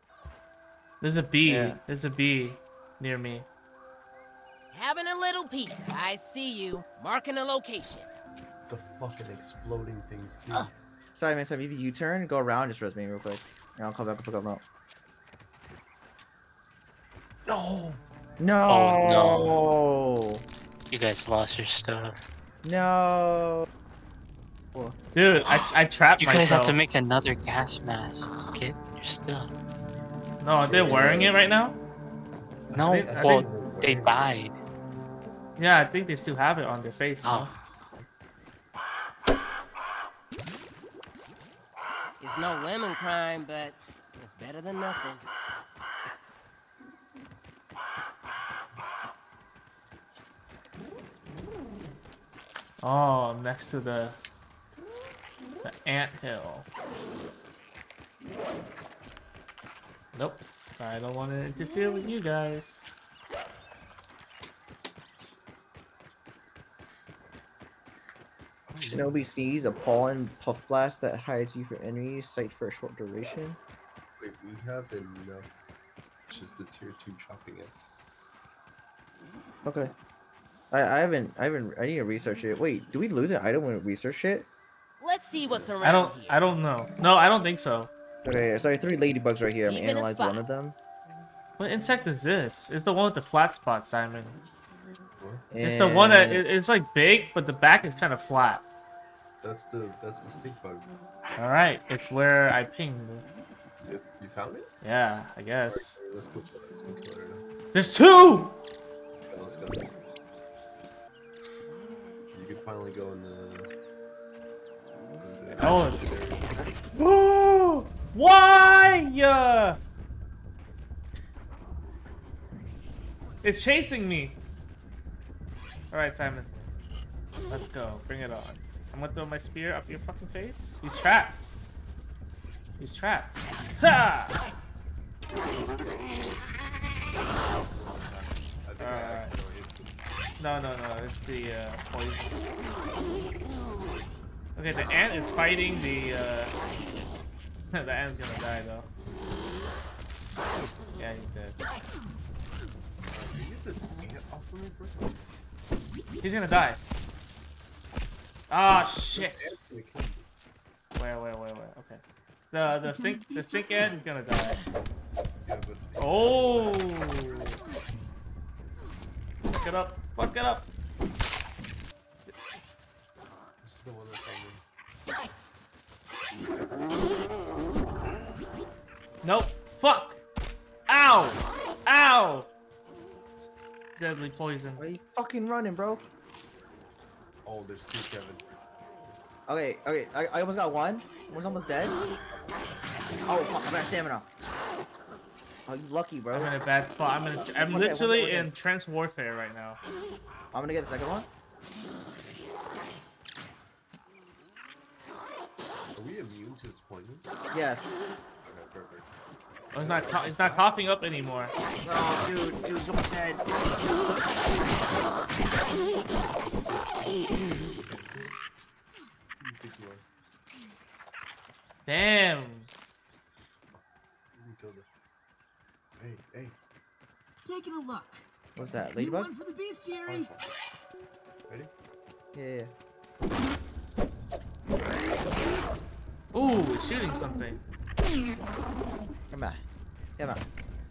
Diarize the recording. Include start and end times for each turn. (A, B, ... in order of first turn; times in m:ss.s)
0:01.0-0:03.5 A
0:01.4-0:01.8 B
0:04.7-0:08.1 C
0:08.7-0:10.7 D
0:10.5-0:14.6 B
0:17.5-0:18.0 D
0:18.4-0:20.4 B
0:18.7-0:19.6 E
0:20.9-0:22.2 E
0:22.6-0:23.7 B
0:25.1-0:26.8 A
0:25.4-0:29.5 E
0:30.4-0:31.8 A
0:30.7-0:31.3 B
0:30.8-0:31.2 D
0:32.7-0:34.4 D
0:32.7-0:33.5 A
0:32.7-0:34.6 E
0:35.6-0:38.1 A
0:37.2-0:37.5 E
0:42.2-0:45.2 C
0:52.8-0:54.2 A
0:55.6-0:56.7 A
1:00.1-1:02.8 A
1:08.7-1:09.3 D
1:08.8-1:13.6 B
1:14.2-1:15.5 D
1:16.3-1:17.9 D
1:19.6-1:19.9 B
1:20.7-1:24.5 B
1:25.0-1:26.4 C
1:25.5-1:25.8 D
1:25.8-1:27.9 A
1:28.2-1:30.8 B
1:29.7-1:30.4 C
1:31.6-1:34.4 A
1:35.2-1:35.4 D
1:35.5-1:36.4 B
1:35.6-1:38.6 A
1:39.4-1:40.9 D
1:41.4-1:43.2 A
1:43.8-1:44.7 D
1:44.8-1:46.0 A
1:45.7-1:47.4 D
1:47.7-1:48.6 A
1:49.2-1:49.9 D
1:52.3-1:53.7 D
1:55.2-1:56.7 D
1:55.6-1:56.0 A
1:57.0-1:59.8 A
2:03.4-2:04.4 A
2:05.9-2:06.5 A
2:07.5-2:11.5 A
2:12.8-2:14.4 A
2:17.5-2:20.0 D
2:18.8-2:19.4 A
2:20.4-2:22.4 A
2:24.6-2:26.5 A
2:27.7-2:28.9 A
2:31.0-2:31.6 A
2:33.1-2:35.3 D
2:36.2-2:36.8 A
2:38.5-2:39.6 A
2:38.7-2:40.3 D
2:41.0-2:44.6 A
2:42.7-2:44.6 F
2:45.4-2:47.3 D
2:46.0-2:47.6 A
2:47.4-2:47.9 F
2:49.6-2:50.7 A
2:53.6-2:54.6 D
2:59.2-3:00.2 A
3:00.9-3:02.5 A
3:04.0-3:04.9 A
3:04.8-3:06.0 B
3:07.4-3:08.4 D
3:09.5-3:12.0 B
3:12.2-3:13.2 D
3:13.3-3:14.3 B
3:15.7-3:16.6 B
3:16.3-3:19.8 A
3:17.5-3:18.5 B
3:20.5-3:21.3 B
3:26.0-3:27.3 D
3:27.5-3:28.0 B
3:28.4-3:29.1 D
3:29.7-3:30.8 D
3:29.7-3:31.5 A
3:31.8-3:33.4 B
3:37.8-3:38.3 D
3:39.4-3:40.0 D
3:41.9-3:42.7 A
3:44.3-3:44.9 D
3:46.0-3:46.6 D
3:47.4-3:48.2 F
3:48.6-3:49.3 B
3:48.9-3:50.3 F
3:50.1-3:50.4 D
3:52.3-3:52.7 B
3:56.3-3:57.6 A
3:59.3-3:59.6 B
4:00.2-4:00.4 B